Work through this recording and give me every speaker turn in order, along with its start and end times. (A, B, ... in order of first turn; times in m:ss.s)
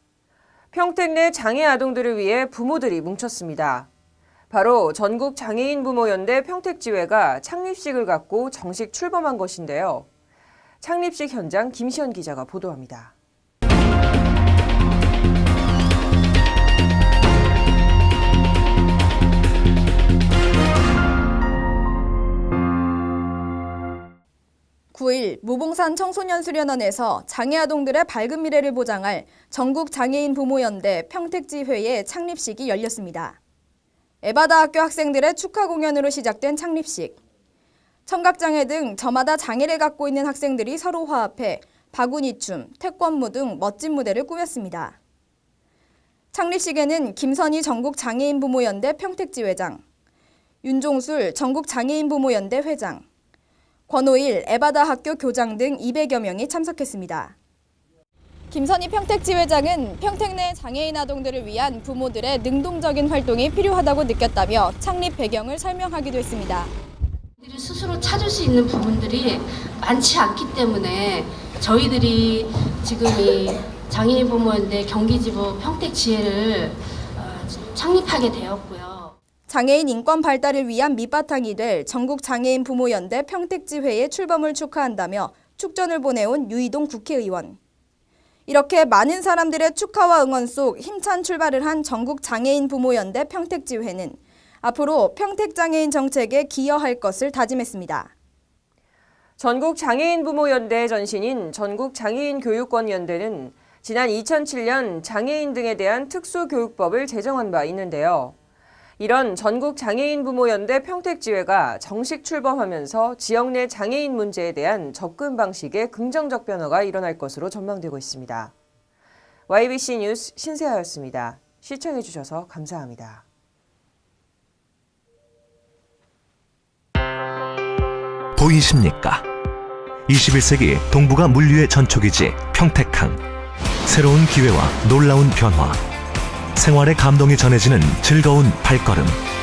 0:00.7-0:03.9 A
0:04.5-0:10.1 A
0:10.8-0:13.1 A
0:24.9-0:33.4 B
0:34.2-0:37.2 B
0:38.0-0:45.0 B
0:46.3-0:49.8 B
0:50.6-0:53.0 B
0:53.9-0:57.3 B
0:58.5-1:06.7 B
1:07.4-1:19.1 C
1:19.5-1:27.6 B
1:28.5-1:38.1 B
1:39.4-1:48.4 A
1:49.0-1:58.5 A
1:59.5-2:03.2 A
2:08.4-2:09.2 D
2:10.1-2:13.2 D
2:13.8-2:15.8 D
2:16.5-2:19.2 D